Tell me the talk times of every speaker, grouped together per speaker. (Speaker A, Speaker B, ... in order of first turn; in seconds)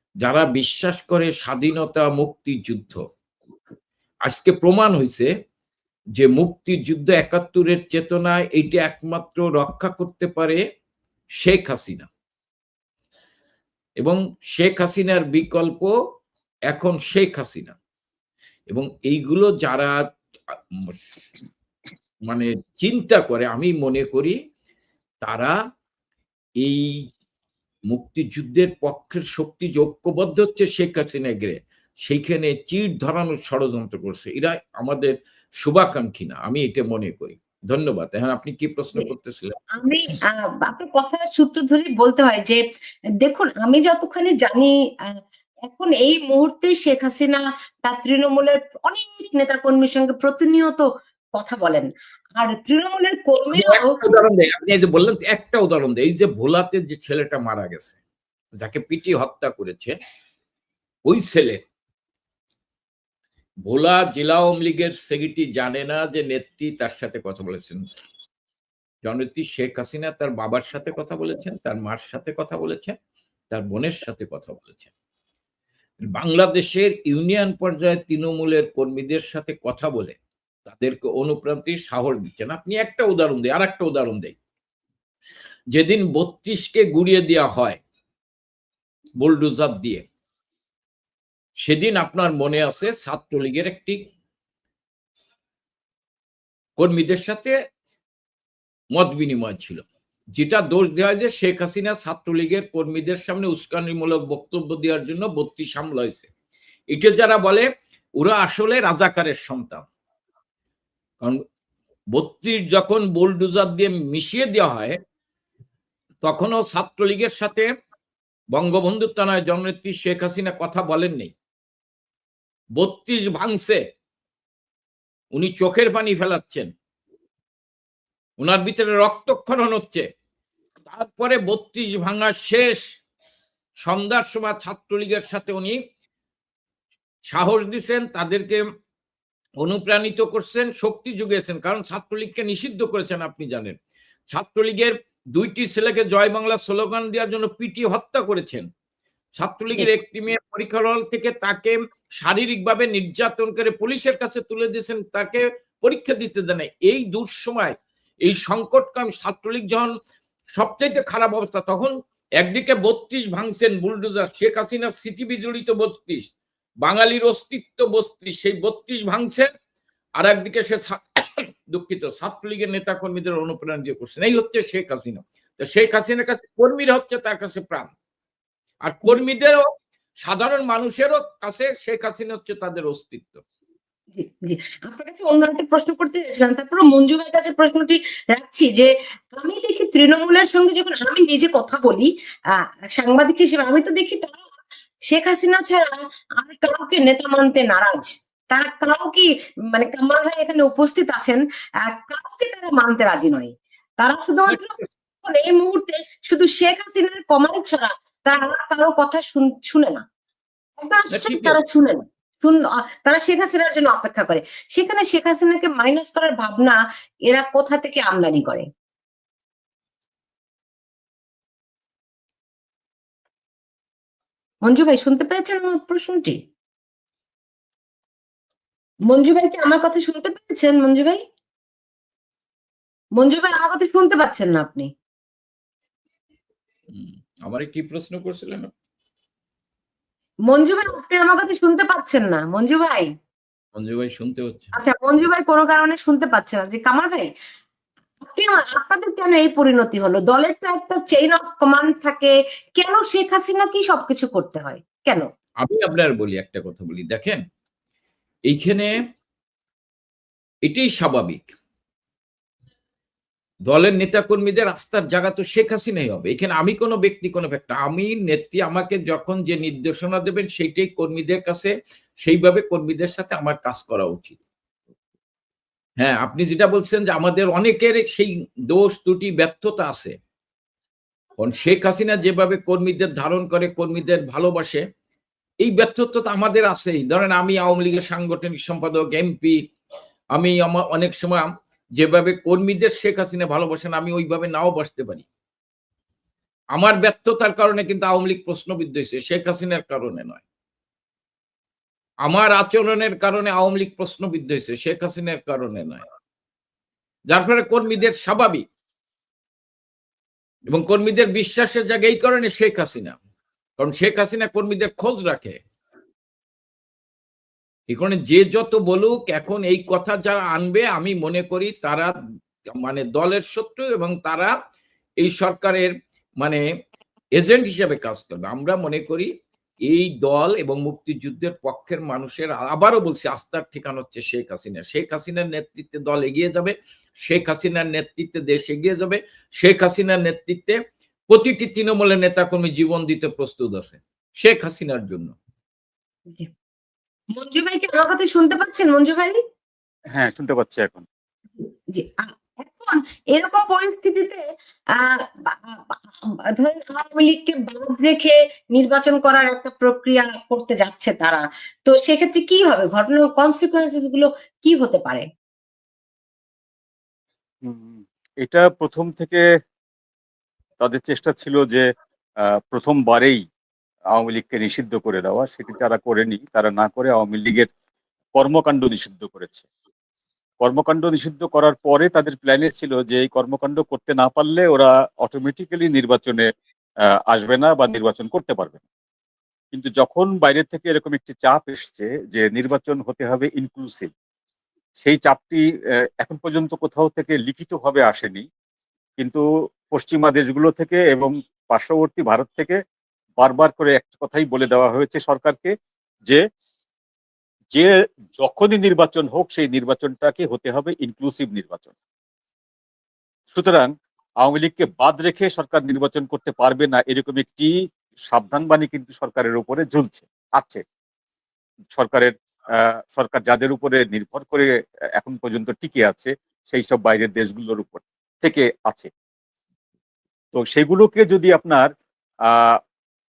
Speaker A: 0.2-3.0, 4.3-5.3, 6.2-10.6, 11.4-12.1, 14.0-15.9, 16.7-17.8, 18.7-20.0, 20.5-21.0, 22.3-24.4, 25.2-25.6, 26.6-27.0, 27.9-39.6, 53.6-58.0, 58.6-60.0, 61.1-61.6, 63.7-67.8, 69.0-73.0, 73.5-74.9, 76.0-84.4, 85.7-87.8, 89.2-90.1, 91.6-94.0, 96.8-97.5, 98.9-106.3, 106.9-107.7, 108.2-109.8, 112.1-115.0, 116.2-117.7, 118.5-121.3, 122.8-123.8, 125.3-126.7, 128.4-130.1, 130.9-132.9, 133.8-135.8, 137.3-138.6, 139.6-143.8, 144.3-148.7, 149.4-159.9, 160.5-166.3, 166.8-169.5, 170.2-177.9, 178.8-179.7, 180.2-183.4, 204.5-204.9, 211.1-211.6, 236.9-238.7, 243.8-244.8, 255.6-257.4, 258.5-259.0, 260.6-261.5, 263.7-271.7, 272.2-274.4, 276.0-280.1, 281.4-284.8, 285.6-289.6, 290.3-295.3, 296.7-300.4, 302.2-306.1, 307.3-308.6, 310.7-313.2, 313.8-315.6, 317.9-322.1, 322.7-324.5, 325.2-326.6, 327.4-329.3, 329.9-336.7, 337.2-340.8, 341.3-345.3
Speaker B: 39.8-42.6, 43.2-45.1, 45.7-54.0, 184.2-192.1, 192.9-194.4, 195.1-204.7, 205.2-210.0, 210.8-218.7, 224.6-226.4, 229.1-231.2, 233.2-234.9, 240.5-243.1, 244.8-247.3, 248.2-255.2, 347.4-349.4, 351.6-354.4, 355.0-365.3
Speaker C: 350.1-351.1, 367.6-369.4, 370.8-371.9, 372.7-373.4, 374.1-377.7, 378.4-379.7, 380.6-386.5, 387.3-388.8, 389.7-394.1, 395.0-395.6, 396.2-398.5, 399.2-402.8, 403.4-405.7, 407.7-411.9, 413.5-413.9, 414.4-417.7, 418.3-420.8, 421.9-429.1, 430.5-431.9, 432.5-432.8